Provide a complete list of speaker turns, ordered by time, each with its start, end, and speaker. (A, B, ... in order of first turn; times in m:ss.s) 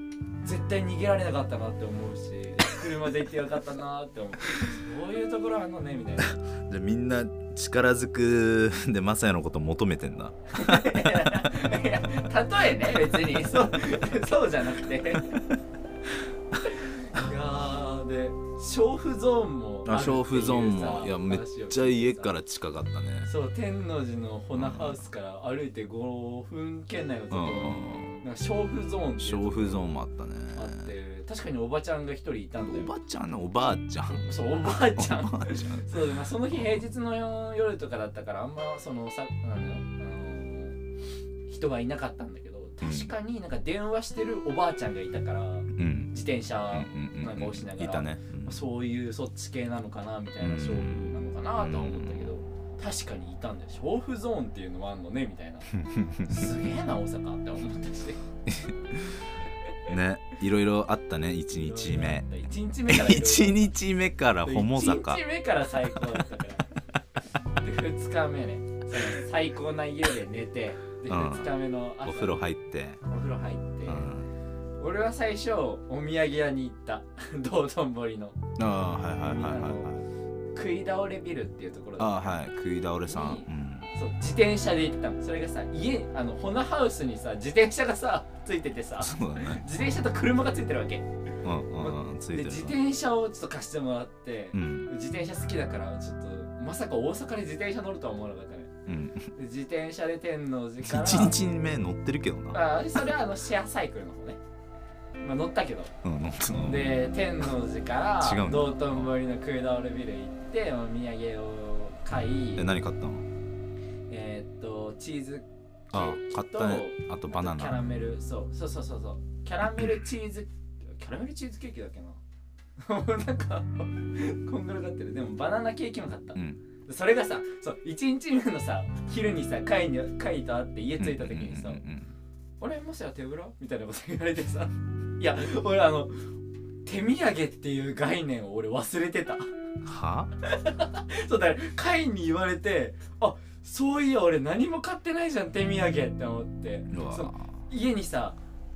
0:00.4-0:06.3 A
0:06.2-0:11.5 B
0:10.5-0:15.4 A
0:16.6-0:22.3 A
0:19.8-0:23.3 B
0:23.2-0:29.9 A
0:24.6-0:25.0 B
0:27.3-0:28.2 B
0:29.2-0:30.9 B
0:30.6-0:32.9 A
0:32.6-0:36.0 B
0:34.1-0:40.8 A
0:36.5-0:36.8 B
0:41.5-0:55.7 A
0:42.8-0:43.1 B
0:45.8-0:46.1 B
0:46.7-0:48.6 B
0:50.4-0:52.3 B
0:55.7-0:56.5 B
0:56.2-0:58.2 A
0:58.5-0:59.3 B
0:59.9-1:05.2 B
1:01.5-1:03.7 A
1:04.4-1:06.7 A
1:06.0-1:06.2 B
1:07.6-1:12.4 A
1:11.1-1:13.0 B
1:13.1-1:14.1 A
1:13.9-1:14.3 B
1:14.8-1:18.4 A
1:18.6-1:20.0 B
1:19.2-1:19.9 A
1:20.6-1:22.4 A
1:22.0-1:23.9 B
1:23.1-1:31.1 A
1:29.0-1:29.6 B
1:31.4-1:32.8 B
1:31.8-1:41.4 A
1:34.5-1:34.9 B
1:38.9-1:39.3 B
1:40.8-1:42.6 B
1:42.5-1:44.4 A
1:45.2-1:45.9 A
1:46.0-1:47.1 B
1:46.6-1:52.7 A
1:48.2-1:49.2 B
1:52.6-1:53.3 B
1:54.1-2:02.2 A
1:55.9-1:57.8 B
1:59.8-2:00.0 B
2:02.8-2:11.8 A
2:06.4-2:06.6 B
2:11.0-2:12.1 B
2:12.6-2:16.2 A
2:16.8-2:19.5 A
2:19.8-2:20.3 B
2:20.4-2:28.4 A
2:26.9-2:27.5 B